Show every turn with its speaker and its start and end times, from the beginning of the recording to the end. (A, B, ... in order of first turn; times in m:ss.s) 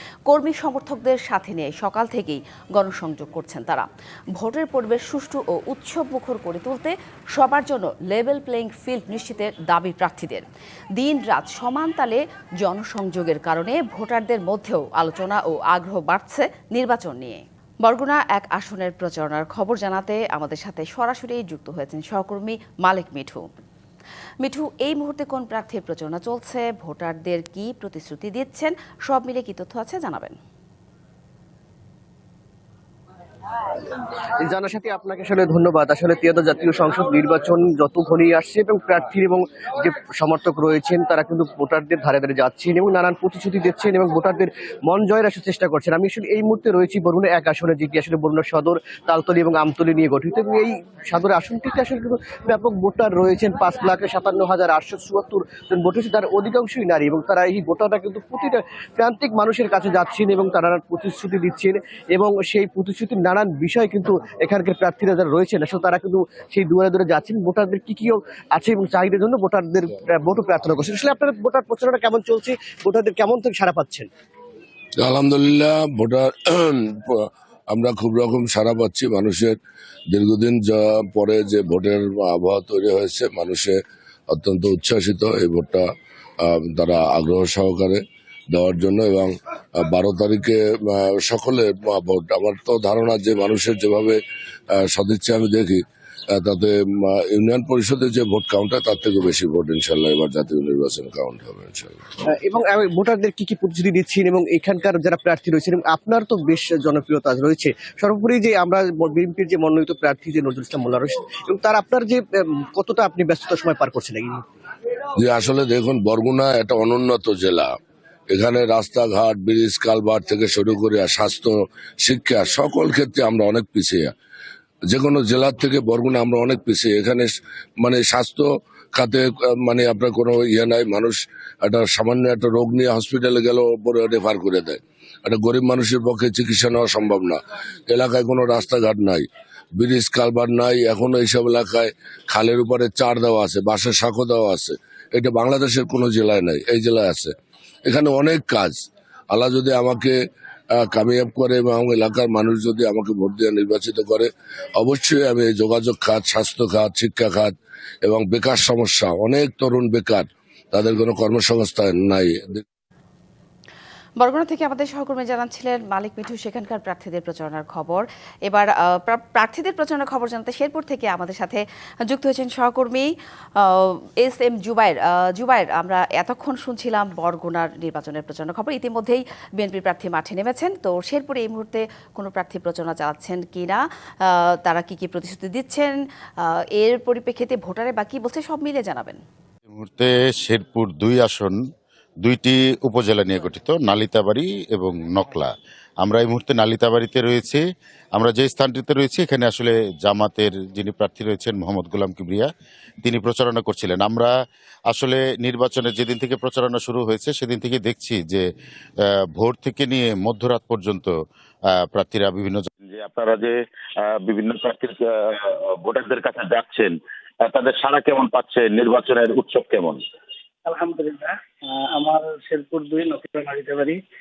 0:00.3-0:10.4 A
0:11.0-0:23.4 A
0:24.4-0:30.4 A
0:34.4-1:14.1 B
1:15.0-1:19.6 C
1:20.1-1:23.8 C
1:24.3-1:25.8 C
1:26.4-1:34.2 C
1:34.7-1:35.8 C
1:36.3-1:42.0 C
1:42.3-1:54.4 B
1:55.2-1:57.7 C
1:58.3-2:04.1 C
2:04.9-2:19.2 C
2:19.8-2:27.3 C
2:27.8-2:30.2 C
2:30.8-2:42.6 C
2:44.2-3:09.2 A
3:09.8-3:11.6 D
3:12.2-3:17.6 D
3:18.1-3:22.5 D
3:23.0-3:24.3 D
3:24.9-3:28.4 D
3:29.3-3:31.2 D
3:31.7-3:32.7 D
3:32.8-3:40.0 E
3:40.6-3:44.0 F